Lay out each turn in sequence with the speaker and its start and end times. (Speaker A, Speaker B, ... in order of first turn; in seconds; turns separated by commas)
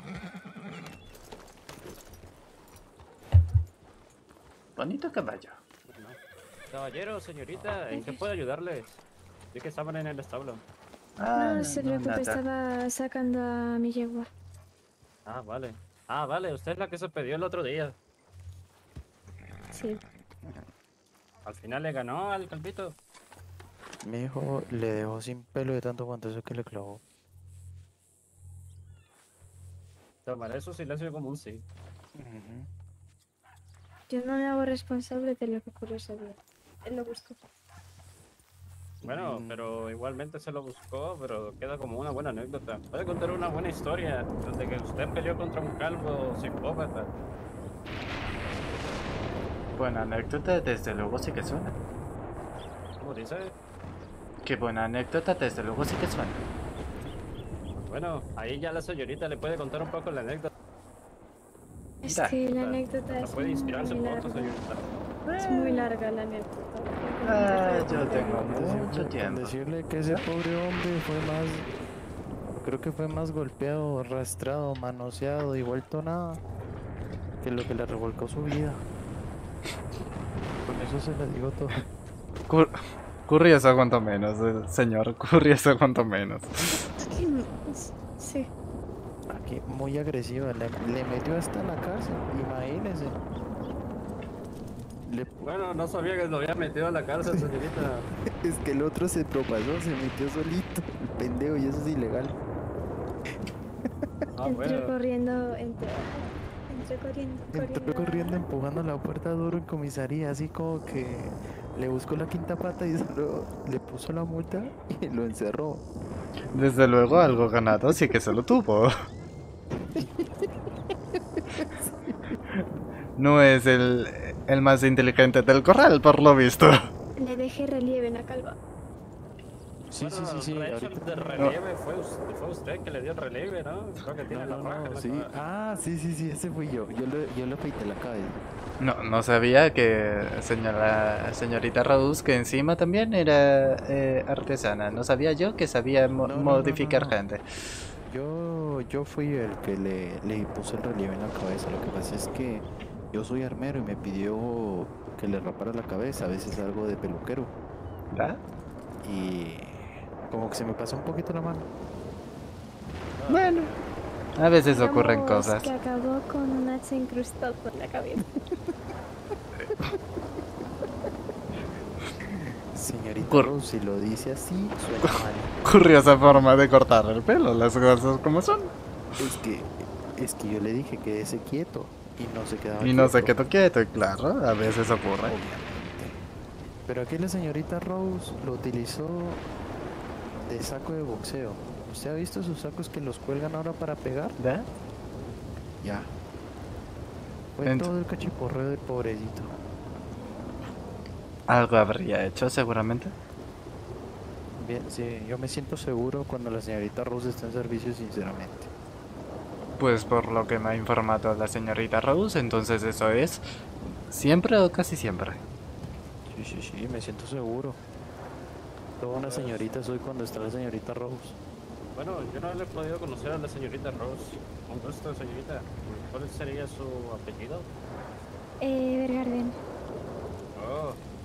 Speaker A: 4.8-5.6, Speaker B: 5.9-6.2, Speaker B: 6.7-9.0, Speaker C: 7.9-8.2, Speaker B: 9.5-10.6, Speaker A: 11.2-12.4, Speaker C: 11.3-14.3, Speaker B: 15.2-17.9, Speaker C: 19.7-20.0, Speaker B: 21.4-22.9, Speaker D: 24.0-27.0, Speaker B: 30.2-31.6, Speaker D: 32.1-32.7, Speaker C: 34.1-37.4, Speaker D: 39.0-39.7, Speaker B: 39.0-47.1, Speaker A: 49.8-51.8, Speaker B: 53.0-53.5, Speaker A: 54.4-56.4, Speaker B: 57.8-60.5, Speaker C: 62.0-64.6, Speaker A: 62.0-62.4, Speaker B: 62.5-64.9, Speaker A: 65.2-65.9, Speaker C: 65.4-68.5, Speaker A: 67.2-70.3, Speaker D: 67.9-71.7, Speaker D: 72.6-76.4, Speaker D: 77.4-78.8, Speaker D: 80.6-81.8, Speaker A: 82.5-82.7, Speaker A: 83.3-86.7, Speaker C: 87.0-88.5, Speaker D: 89.3-93.2, Speaker D: 95.1-95.3, Speaker B: 95.4-98.1, Speaker D: 97.2-97.5, Speaker D: 98.4-102.4, Speaker B: 104.3-104.9, Speaker C: 104.5-108.4, Speaker D: 107.5-115.8, Speaker A: 116.5-118.9, Speaker D: 119.9-120.3, Speaker D: 121.5-122.2, Speaker A: 123.2-126.9, Speaker C: 127.2-128.6, Speaker D: 129.9-131.6, Speaker B: 130.0-135.3, Speaker D: 134.2-138.4, Speaker A: 138.8-147.4, Speaker D: 146.2-147.2, Speaker D: 148.1-157.5, Speaker A: 158.1-158.4, Speaker D: 159.0-161.7, Speaker B: 163.2-163.5, Speaker A: 163.3-163.7, Speaker A: 164.4-165.7, Speaker C: 164.8-168.2, Speaker D: 172.2-175.7, Speaker A: 175.6-178.7, Speaker D: 179.2-183.3, Speaker A: 182.8-185.3, Speaker D: 185.2-186.2, Speaker D: 186.8-189.4, Speaker D: 190.3-194.4, Speaker A: 194.4-194.7, Speaker D: 195.8-196.1, Speaker D: 197.6-199.5, Speaker A: 197.6-197.9, Speaker A: 201.5-203.1, Speaker D: 204.6-208.7, Speaker A: 209.8-213.4, Speaker A: 214.1-215.4, Speaker D: 216.3-217.8, Speaker D: 219.0-221.4, Speaker B: 219.3-219.7, Speaker B: 221.9-227.7, Speaker C: 228.6-229.6, Speaker B: 230.5-231.0